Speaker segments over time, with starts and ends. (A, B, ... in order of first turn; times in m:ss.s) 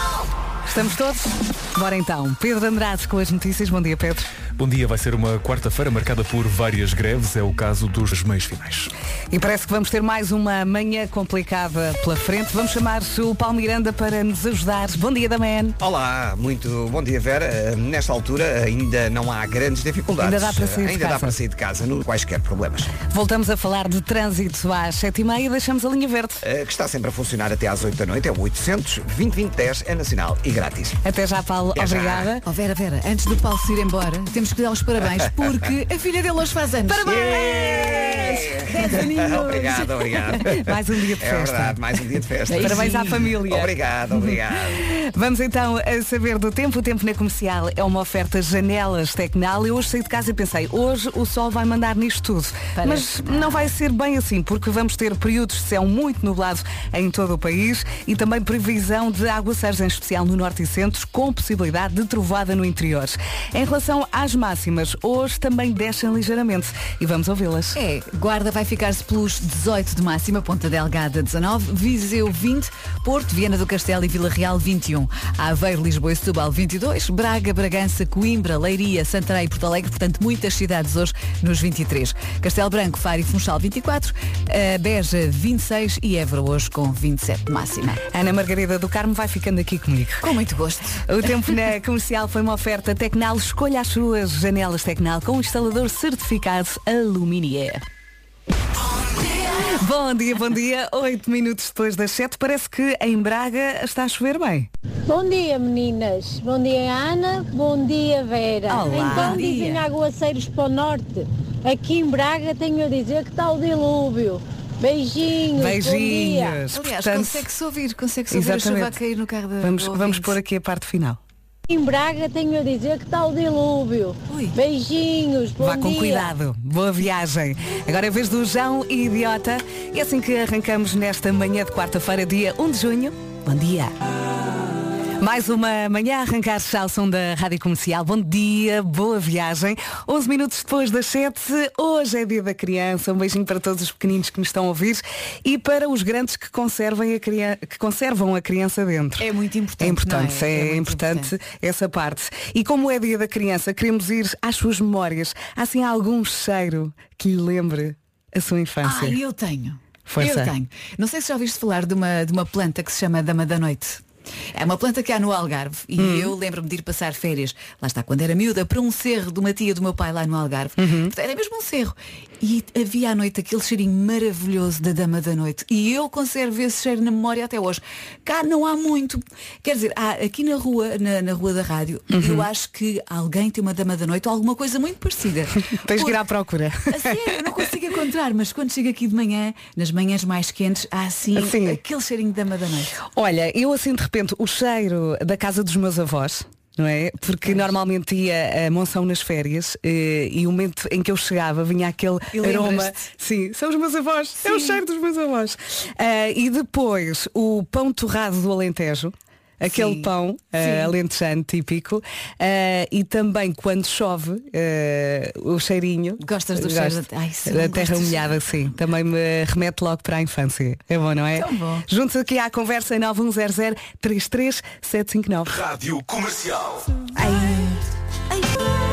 0:00.7-0:04.3 A
0:04.6-0:08.9 B
0:09.3-0:15.8 A
0:15.8-0:22.9 C
0:20.2-0:21.4 A
0:23.1-0:26.4 A
0:26.4-0:31.0 C
0:31.0-0:32.4 A
0:31.7-0:32.3 C
0:32.4-0:39.9 D
0:36.9-0:39.0 A
0:37.0-0:44.8 C
0:40.3-0:41.8 A
0:42.5-0:43.2 D
0:42.5-1:07.8 A
0:52.7-0:53.7 D
1:07.8-1:28.0 D
1:28.1-1:30.3 A
1:30.2-1:31.0 D
1:31.0-1:37.8 A
1:39.4-1:44.7 A
1:45.1-1:56.6 E
1:48.7-1:49.4 A
1:48.7-1:49.8 D
1:55.6-1:57.5 A
1:56.7-2:00.4 D
1:58.3-1:58.9 A
1:59.6-2:01.2 A
2:01.7-2:06.3 E
2:04.3-2:04.5 D
2:05.6-2:13.9 A
2:15.2-2:29.3 A
2:29.2-2:31.3 D
2:29.8-2:39.2 A
2:38.8-3:06.2 D
2:40.1-2:40.5 A
2:46.0-2:46.3 A
2:50.8-2:51.1 A
3:02.1-3:02.4 A
3:05.8-3:07.1 A
3:06.9-3:12.9 D
3:11.4-3:11.8 A
3:13.0-3:45.7 A
3:17.4-3:17.7 D
3:22.3-3:23.0 D
3:24.4-3:24.8 D
3:29.6-3:30.9 D
3:36.2-3:38.7 D
3:41.3-3:41.8 D
3:45.9-3:46.5 B
3:47.1-3:47.8 D